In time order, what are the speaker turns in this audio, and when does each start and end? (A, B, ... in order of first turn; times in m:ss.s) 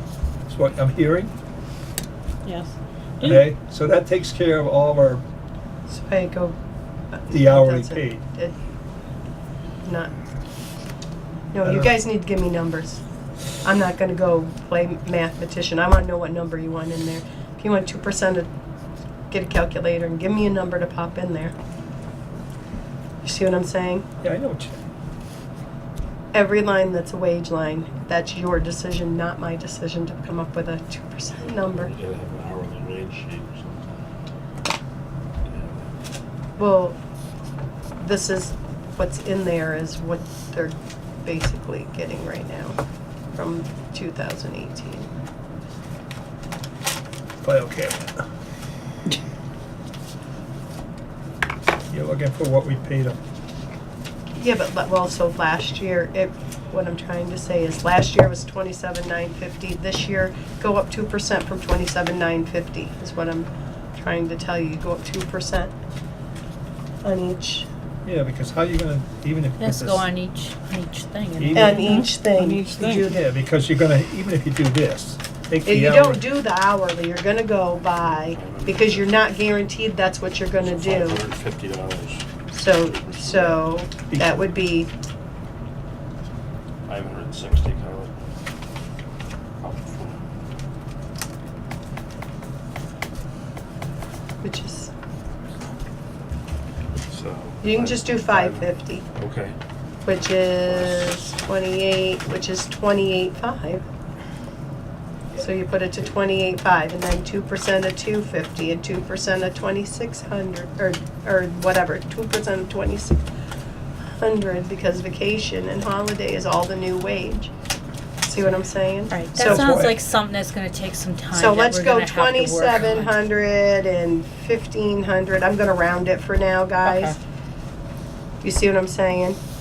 0:00.5-0:01.3 A
0:02.4-0:03.5 B
0:03.2-0:05.2 A
0:05.9-0:06.6 C
0:07.1-0:08.6 C
0:07.3-0:08.2 A
0:09.8-0:10.1 C
0:11.5-0:13.0 C
0:11.6-0:12.0 A
0:13.6-0:18.5 C
0:19.3-0:21.5 C
0:23.2-0:24.1 C
0:24.2-0:24.8 A
0:26.3-0:31.9 C
0:31.4-0:33.8 D
0:35.5-0:35.9 D
0:36.6-0:37.0 C
0:38.0-0:42.8 C
0:43.3-0:45.1 C
0:47.4-0:48.2 A
0:51.9-0:53.2 A
0:54.4-1:05.7 C
1:07.0-1:07.7 C
1:08.0-1:10.1 A
1:09.6-1:11.9 E
1:11.4-1:12.0 A
1:11.5-1:13.2 C
1:11.8-1:13.1 B
1:13.1-1:16.2 A
1:15.7-1:21.2 C
1:18.3-1:19.1 D
1:20.6-1:23.7 D
1:22.5-1:24.9 C
1:24.1-1:24.5 A
1:26.9-1:28.1 D
1:29.6-1:30.2 D
1:34.4-1:34.9 C
1:37.0-1:39.6 D
1:37.6-1:39.0 C
1:40.0-1:43.8 C
1:40.6-1:41.1 D
1:45.4-1:53.2 C
1:54.2-1:57.5 C
1:58.2-1:59.8 C
1:59.1-2:03.2 E
1:59.4-2:00.0 A
2:01.3-2:07.2 C
2:06.8-2:07.2 E
2:08.4-2:09.4 C